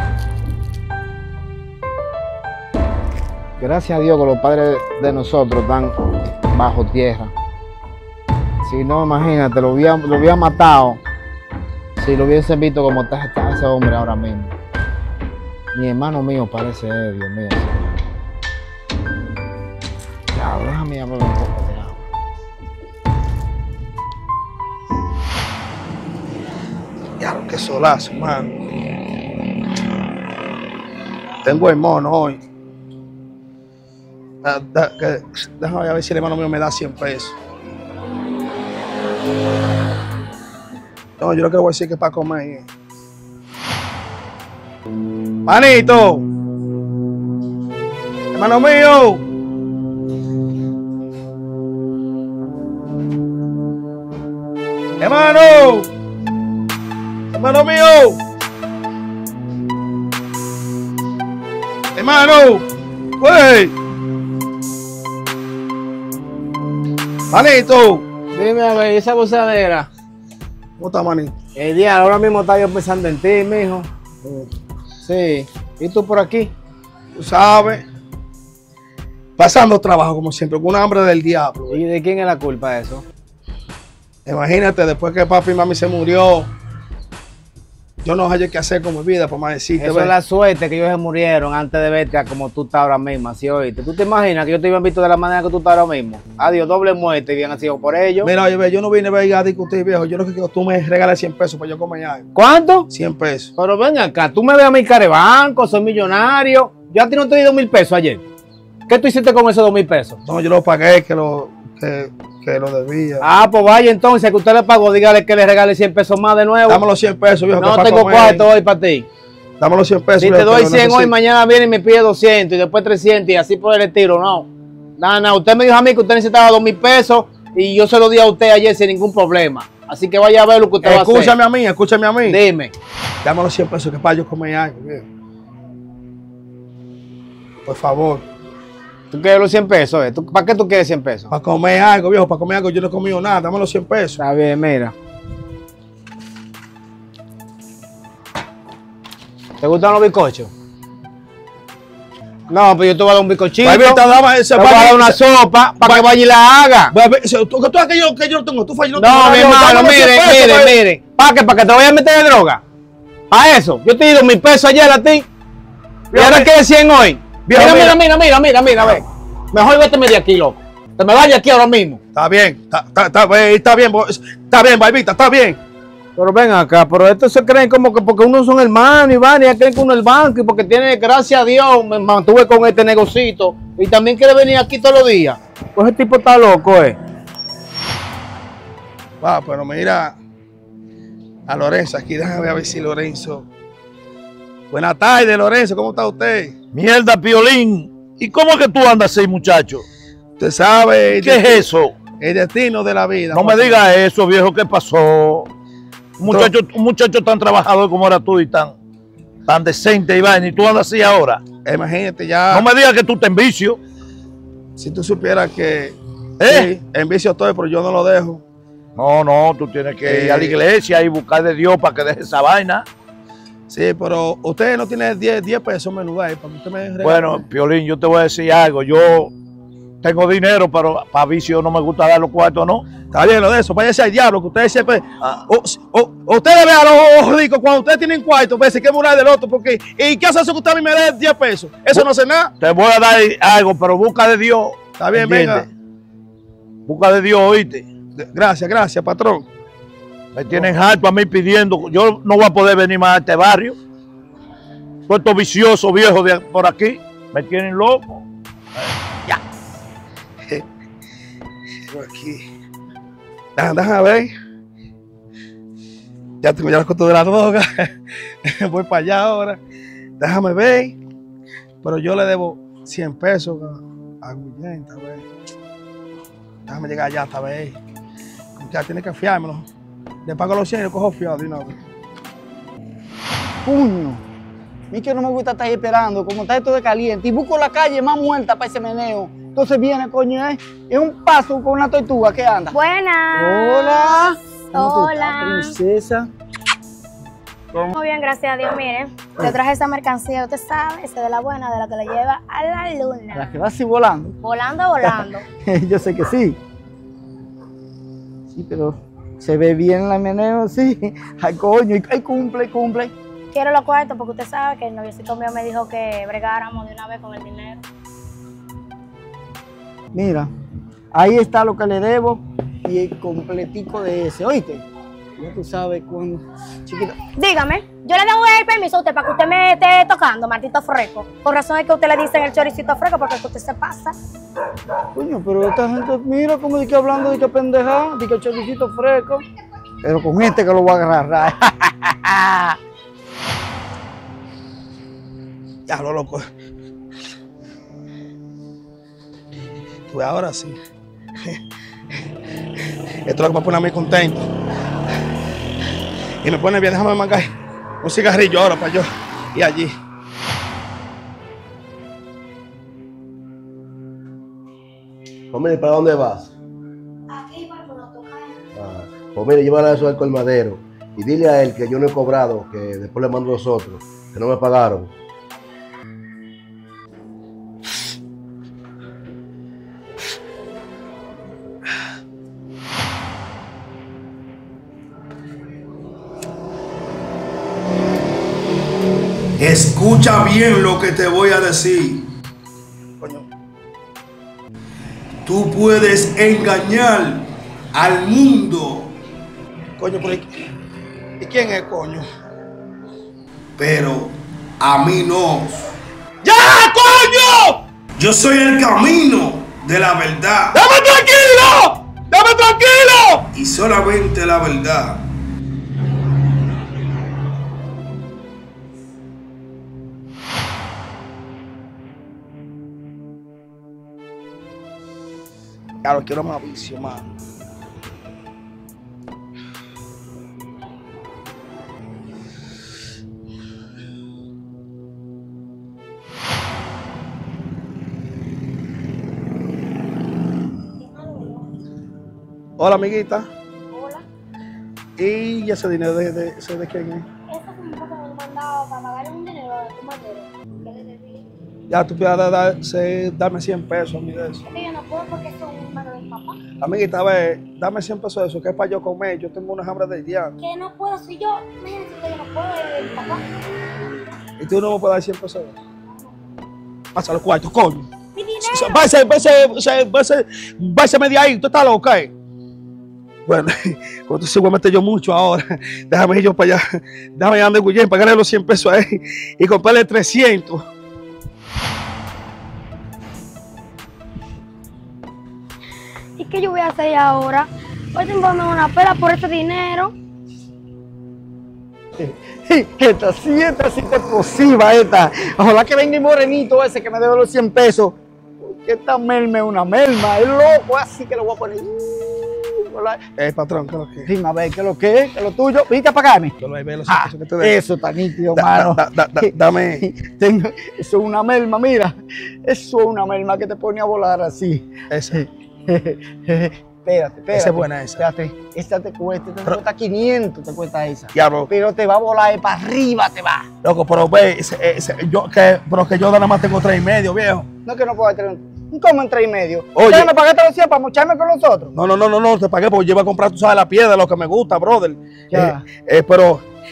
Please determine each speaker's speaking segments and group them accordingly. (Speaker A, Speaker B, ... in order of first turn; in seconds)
Speaker A: 3.6-6.0, 6.5-7.3, 8.6-11.0, 12.0-14.5, 15.7-17.9, 20.3-22.0, 68.3-69.9, 71.6-74.5, 75.0-76.5, 81.7-83.0, 89.8-98.3, 102.3-102.9, 103.6-108.2, 108.9-110.2, 113.2-116.8, 117.6-119.1, 120.2-131.3, 132.2-132.7, 139.1-141.3, 144.2-144.9, 149.6-150.5, 152.5-154.0, 154.5-156.9, 158.9-162.6, 163.3-165.3, 166.1-172.0, 176.2-187.0
Speaker B: 27.2-28.5, 31.4-32.4, 34.4-37.4, 41.2-42.7, 45.5-46.2, 48.3-49.2, 55.0-55.9, 57.3-58.2, 62.0-62.7, 63.2-63.8, 67.3-68.0, 70.8-71.3, 77.2-77.8, 79.4-81.8, 84.2-86.5, 88.0-90.1, 98.2-102.2, 102.9-103.5, 110.2-113.2, 116.7-118.5, 119.6-121.1, 130.8-132.4, 133.2-135.1, 137.7-138.2, 141.3-144.2, 153.6-155.2, 155.8-156.1, 156.9-160.7, 166.1-166.5, 167.5-168.0, 172.1-175.6, 189.2-190.2, 191.5-193.5, 194.7-196.5, 200.4-201.7, 202.2-203.8, 206.3-206.5, 211.7-212.7, 214.8-218.4, 220.0-220.6, 223.7-227.4, 233.1-242.5, 245.0-245.7, 248.2-249.5, 261.9-262.4, 263.6-264.3, 266.4-267.6, 268.6-269.6, 270.2-271.0, 271.8-275.2, 276.7-277.8, 278.6-279.7, 280.2-281.8, 345.9-346.4, 350.1-350.8, 353.2-354.4, 356.4-357.5, 358.0-359.9, 389.6-392.3, 393.2-393.5, 395.4-399.1, 400.0-400.4, 401.4-402.3, 403.8-405.9, 406.4-407.6, 408.2-410.9, 413.5-415.3, 426.0-427.3, 442.8-443.5, 445.2-447.2, 451.9-454.6, 456.8-460.5, 464.6-465.8, 467.1-468.1, 468.6-472.3, 473.4-476.8, 477.4-480.8, 503.4-504.3, 506.6-507.8, 508.5-510.0, 515.1-515.4, 517.5-518.2, 521.3-521.7, 523.8-527.7, 530.0-530.3, 532.0-536.6
Speaker C: 196.7-199.8, 201.1-202.0, 203.3-205.5, 206.2-208.8, 209.5-211.4, 212.5-213.8, 216.4-216.7, 219.0-222.8, 227.0-229.3, 230.0-232.8, 242.6-245.7, 246.9-247.9, 250.3-253.8, 255.1-258.2, 258.8-259.4, 410.9-413.4
Speaker D: 283.6-284.2, 284.9-292.8, 293.4-296.3, 303.3-304.3, 305.0-306.6, 308.6-313.1, 320.1-320.5, 321.1-324.9, 325.4-327.2, 335.1-339.4, 340.0-342.8, 492.2-503.2, 504.2-506.5, 507.1-512.1, 512.6-523.7, 527.9-532.0, 535.5-535.8
Speaker E: 292.7-295.7, 297.9-303.5, 304.4-305.4, 313.5-317.8, 327.4-334.1, 367.3-368.6, 441.0-441.6, 443.9-444.2, 447.5-451.4, 454.6-456.6, 460.6-463.4, 468.4-469.1, 486.4-490.1
Speaker F: 365.5-366.5, 368.8-375.1